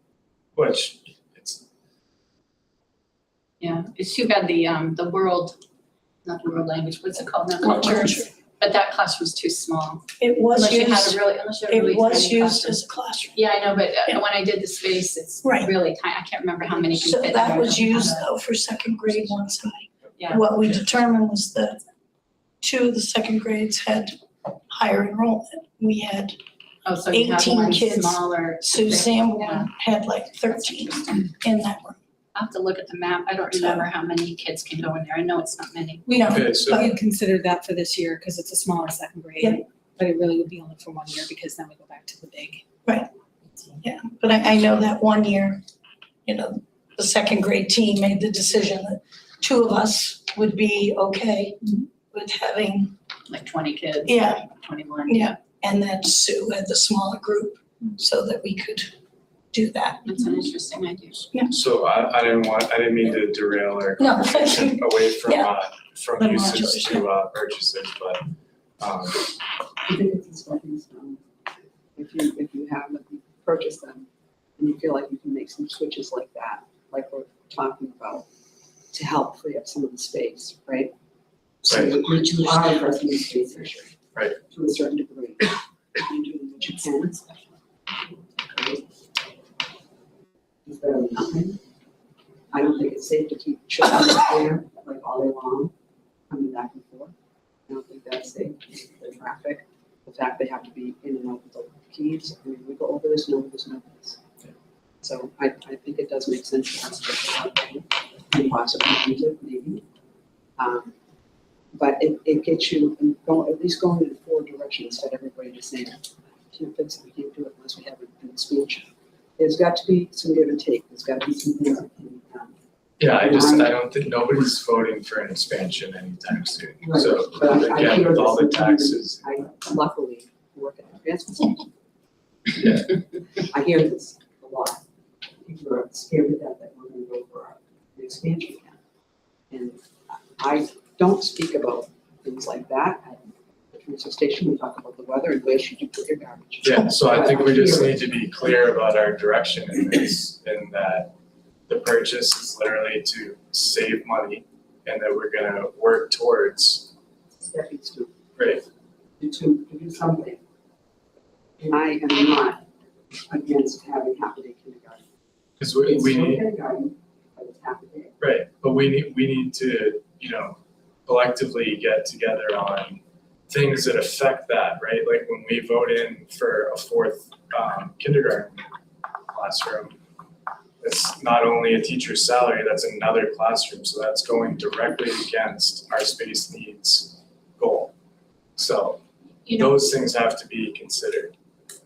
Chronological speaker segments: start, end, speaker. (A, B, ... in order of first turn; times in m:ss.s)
0:00.6-0:01.6 A
0:03.6-0:05.6 B
0:06.2-0:12.8 B
0:07.6-0:08.3 C
0:10.2-0:13.4 C
0:13.3-0:18.2 B
0:15.4-0:15.7 C
0:16.8-0:21.8 C
0:20.2-0:20.4 B
0:22.6-0:24.1 C
0:24.7-0:26.4 C
0:26.8-0:29.7 B
0:27.1-0:32.0 C
0:30.5-0:31.2 B
0:32.3-0:36.1 B
0:33.5-0:33.8 C
0:36.0-0:37.0 C
0:36.2-0:36.8 A
0:36.6-0:42.6 D
0:43.8-0:45.6 C
0:46.2-0:51.6 C
0:52.1-0:52.9 C
0:53.3-0:55.3 B
0:54.0-0:54.4 C
0:55.1-0:58.9 C
0:59.5-1:00.1 C
1:00.0-1:01.3 B
1:01.5-1:08.2 A
1:04.0-1:05.5 C
1:06.2-1:07.0 C
1:08.8-1:09.3 A
1:09.8-1:11.2 E
1:12.0-1:14.1 E
1:14.6-1:18.2 E
1:18.9-1:20.9 E
1:21.6-1:23.9 E
1:21.6-1:22.0 A
1:24.5-1:27.2 E
1:28.4-1:28.8 E
1:30.6-1:31.6 E
1:32.5-1:35.7 E
1:36.3-1:37.1 E
1:37.7-1:44.2 E
1:45.0-1:49.8 E
1:50.6-1:50.9 E
1:51.7-2:02.5 E
2:03.0-2:09.3 A
2:03.1-2:03.8 E
2:06.8-2:11.7 E
2:12.6-2:14.8 E
2:15.4-2:18.8 E
2:19.5-2:28.2 E
2:26.6-2:31.1 A
2:31.7-2:36.9 A
2:37.4-2:38.2 E
2:38.4-2:38.6 A
2:39.2-2:40.4 E
2:41.6-2:42.6 E
2:43.3-2:45.0 E
2:45.6-2:46.4 A
2:45.8-2:48.1 E
2:48.2-2:58.6 A
2:59.3-3:00.0 A
3:00.8-3:07.9 A
3:08.6-3:11.3 A